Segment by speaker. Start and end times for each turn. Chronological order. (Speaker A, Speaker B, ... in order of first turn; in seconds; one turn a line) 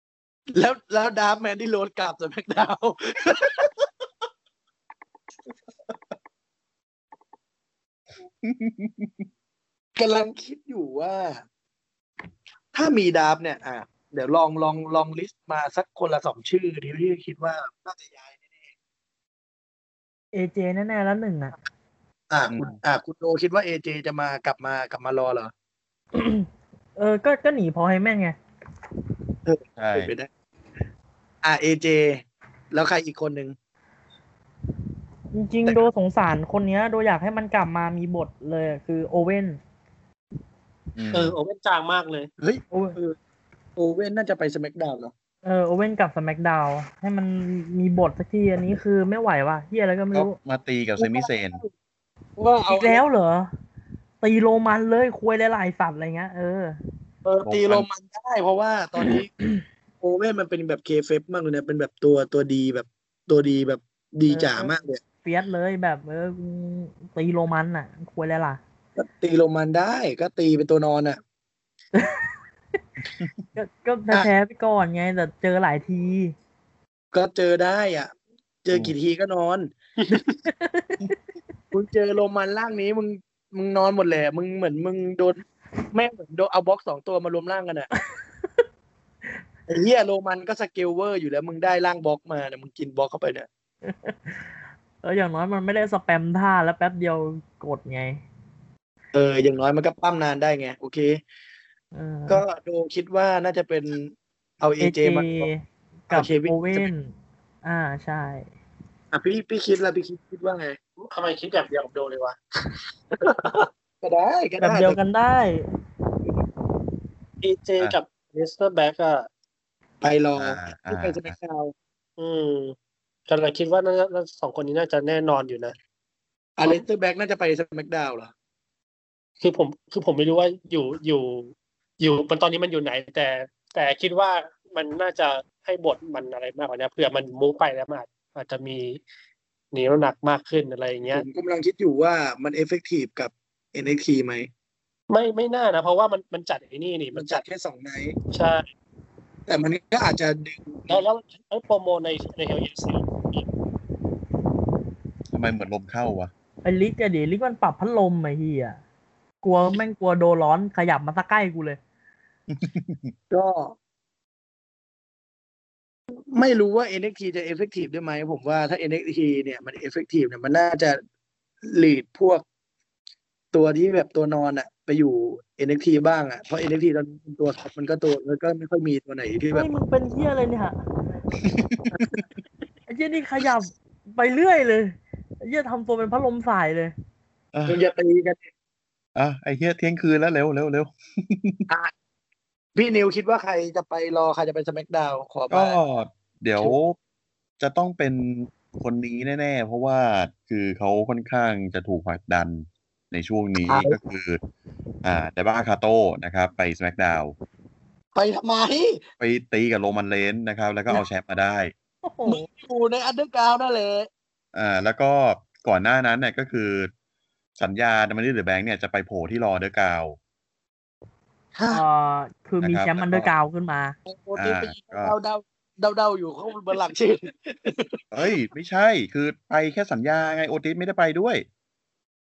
Speaker A: 0.5-3.7
Speaker B: 8.4-9.2
Speaker A: 10.0-11.4
Speaker A: 12.7-18.7
Speaker C: 20.3-21.5
Speaker A: 22.3-25.5
Speaker B: 22.5-22.8
Speaker C: 26.1-28.4
Speaker A: 29.5-30.3
Speaker B: 29.8-30.1
Speaker A: 31.4-33.5
Speaker C: 35.3-39.6
Speaker B: 41.0-41.4
Speaker D: 41.1-42.3
Speaker A: 42.4-43.2
Speaker C: 42.7-43.0
Speaker A: 43.8-45.1
Speaker C: 45.4-50.4
Speaker B: 50.1-51.6
Speaker A: 51.0-51.7
Speaker A: 52.4-53.0
Speaker C: 52.7-53.5
Speaker C: 54.2-56.8
Speaker A: 57.2-59.4
Speaker B: 57.4-57.9
Speaker A: 60.0-65.0
Speaker C: 64.3-68.6
Speaker A: 69.0-71.2
Speaker C: 72.0-72.3
Speaker C: 73.5-76.3
Speaker A: 77.1-78.1
Speaker A: 78.6-79.7
Speaker C: 80.5-81.0
Speaker A: 81.7-87.9
Speaker A: 89.7-93.5
Speaker C: 93.8-94.5
Speaker C: 95.0-98.2
Speaker A: 99.1-101.2
Speaker C: 101.9-102.4
Speaker A: 102.3-105.5
Speaker C: 104.8-107.1
Speaker A: 106.1-106.9
Speaker C: 107.6-108.5
Speaker A: 109.1-110.8
Speaker D: 111.0-112.4
Speaker A: 113.2-115.0
Speaker C: 114.6-115.7
Speaker D: 117.4-119.3
Speaker A: 120.0-121.7
Speaker B: 120.4-121.3
Speaker D: 122.2-122.8
Speaker D: 123.3-125.8
Speaker A: 126.6-128.3
Speaker D: 129.4-139.0
Speaker D: 139.7-141.2
Speaker A: 141.1-144.5
Speaker D: 145.1-147.4
Speaker A: 147.1-148.2
Speaker D: 148.3-148.6
Speaker A: 149.5-151.0
Speaker D: 150.9-153.5
Speaker B: 155.3-156.3
Speaker C: 156.6-158.8
Speaker C: 159.4-161.8
Speaker B: 162.5-163.1
Speaker A: 163.3-163.8
Speaker A: 166.3-171.0
Speaker A: 171.7-172.4
Speaker A: 173.5-179.7
Speaker C: 179.5-180.8
Speaker B: 181.4-182.2
Speaker C: 182.9-186.9
Speaker B: 187.5-187.8
Speaker A: 187.7-188.4
Speaker B: 189.2-191.7
Speaker A: 192.8-195.8
Speaker B: 195.5-197.0
Speaker B: 197.6-204.4
Speaker A: 203.7-204.0
Speaker B: 205.0-207.3
Speaker A: 208.2-209.0
Speaker B: 209.2-211.7
Speaker C: 212.0-212.4
Speaker A: 212.3-214.1
Speaker B: 214.5-216.9
Speaker B: 217.6-220.2
Speaker A: 221.6-221.8
Speaker C: 221.7-224.0
Speaker B: 222.6-223.3
Speaker A: 224.1-228.0
Speaker B: 224.4-225.2
Speaker B: 228.1-231.4